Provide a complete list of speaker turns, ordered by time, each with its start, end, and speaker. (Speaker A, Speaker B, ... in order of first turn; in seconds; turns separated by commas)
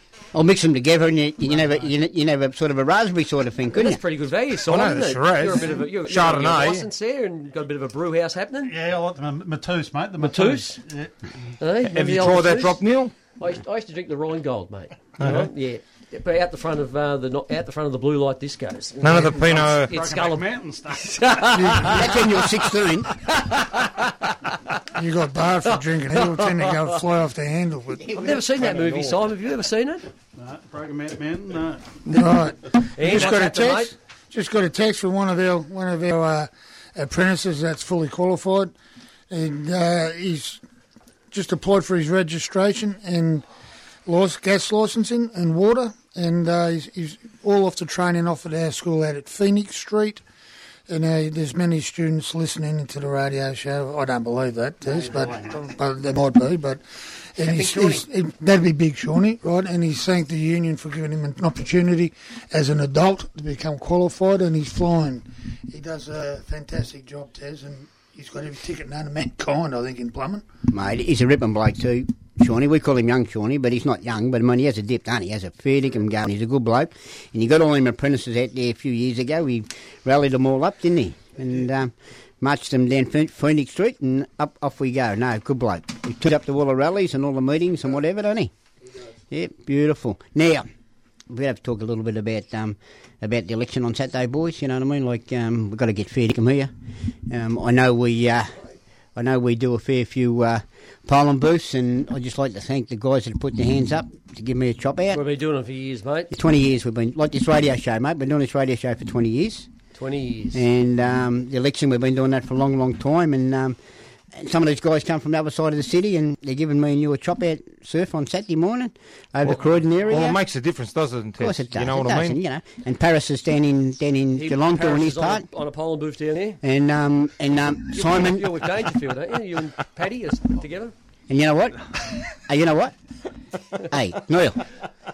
Speaker A: 0.3-4.0, Speaker B: 1.5-1.9, Speaker C: 3.7-8.8, Speaker D: 4.6-6.9, Speaker B: 8.6-11.1, Speaker C: 10.2-10.8, Speaker C: 11.6-12.8, Speaker D: 11.8-13.1, Speaker C: 13.4-22.5, Speaker D: 15.2-15.5, Speaker D: 19.0-19.9, Speaker B: 19.4-21.6, Speaker E: 21.5-22.1, Speaker A: 21.8-23.1, Speaker C: 23.2-24.8, Speaker E: 24.9-28.4, Speaker C: 25.6-27.0, Speaker C: 28.1-30.1, Speaker B: 28.7-29.1, Speaker B: 30.4-32.0, Speaker E: 32.1-38.7, Speaker C: 33.0-33.9, Speaker E: 39.3-40.6, Speaker E: 41.3-43.4, Speaker E: 44.0-50.2, Speaker E: 50.9-56.8, Speaker E: 57.3-70.4, Speaker C: 57.4-58.0, Speaker A: 70.7-88.5, Speaker A: 89.3-90.7, Speaker A: 91.3-96.7, Speaker A: 97.3-98.6, Speaker A: 99.1-105.2, Speaker C: 105.1-106.3, Speaker A: 106.3-109.7, Speaker C: 109.9-110.6, Speaker A: 110.5-113.8, Speaker A: 114.3-120.4, Speaker D: 119.5-122.4, Speaker A: 121.4-125.4, Speaker C: 124.3-126.6, Speaker A: 126.6-128.6, Speaker C: 127.9-130.9, Speaker A: 131.3-132.9, Speaker A: 133.8-134.6